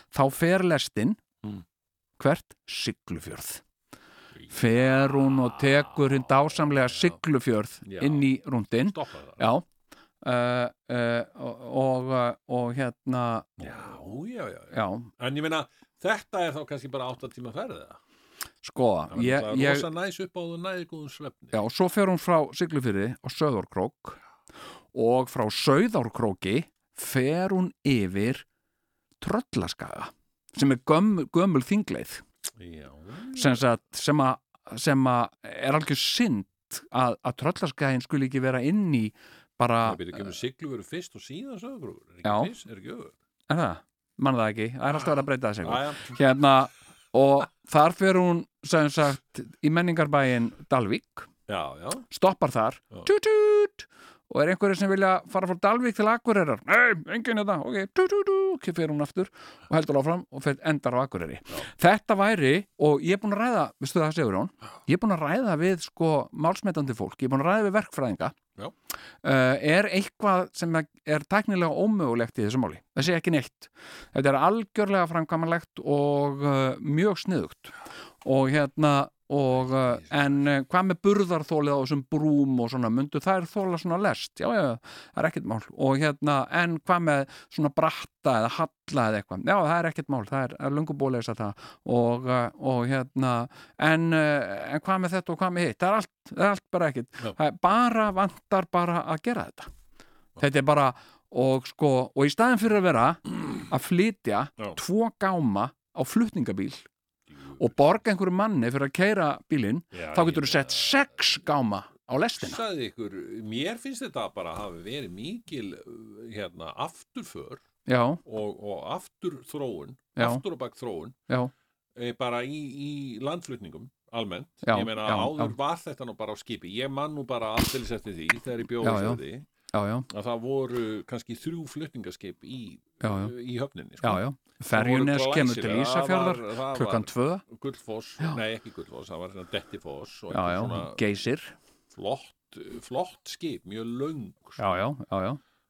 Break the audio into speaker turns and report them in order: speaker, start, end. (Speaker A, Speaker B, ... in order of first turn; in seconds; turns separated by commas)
Speaker A: 0.1-1.2, Speaker A: 2.2-3.6, Speaker B: 4.3-7.2, Speaker A: 4.5-9.6, Speaker B: 7.8-8.3, Speaker B: 8.8-9.5, Speaker A: 10.2-13.9, Speaker B: 13.6-18.0, Speaker A: 14.7-15.1, Speaker A: 18.6-19.9, Speaker B: 19.1-21.5, Speaker A: 21.5-24.2, Speaker A: 24.9-28.4, Speaker A: 29.2-32.2, Speaker B: 32.5-33.6, Speaker A: 33.3-40.3, Speaker B: 39.8-43.1, Speaker A: 42.2-42.5, Speaker A: 43.5-51.3, Speaker B: 45.6-46.2, Speaker B: 51.5-52.1, Speaker A: 52.1-68.3, Speaker A: 69.2-99.7, Speaker B: 79.5-80.5, Speaker A: 100.4-106.8, Speaker B: 107.3-107.9, Speaker A: 107.6-112.6, Speaker B: 109.9-111.2, Speaker B: 112.4-117.6, Speaker A: 117.8-118.2, Speaker B: 118.2-121.2, Speaker A: 120.2-120.4, Speaker B: 122.0-129.4, Speaker A: 124.6-125.5, Speaker A: 128.8-130.1, Speaker B: 130.1-141.0, Speaker A: 133.0-133.3, Speaker A: 134.0-137.4, Speaker A: 140.3-141.6, Speaker B: 141.9-144.8, Speaker A: 144.6-145.4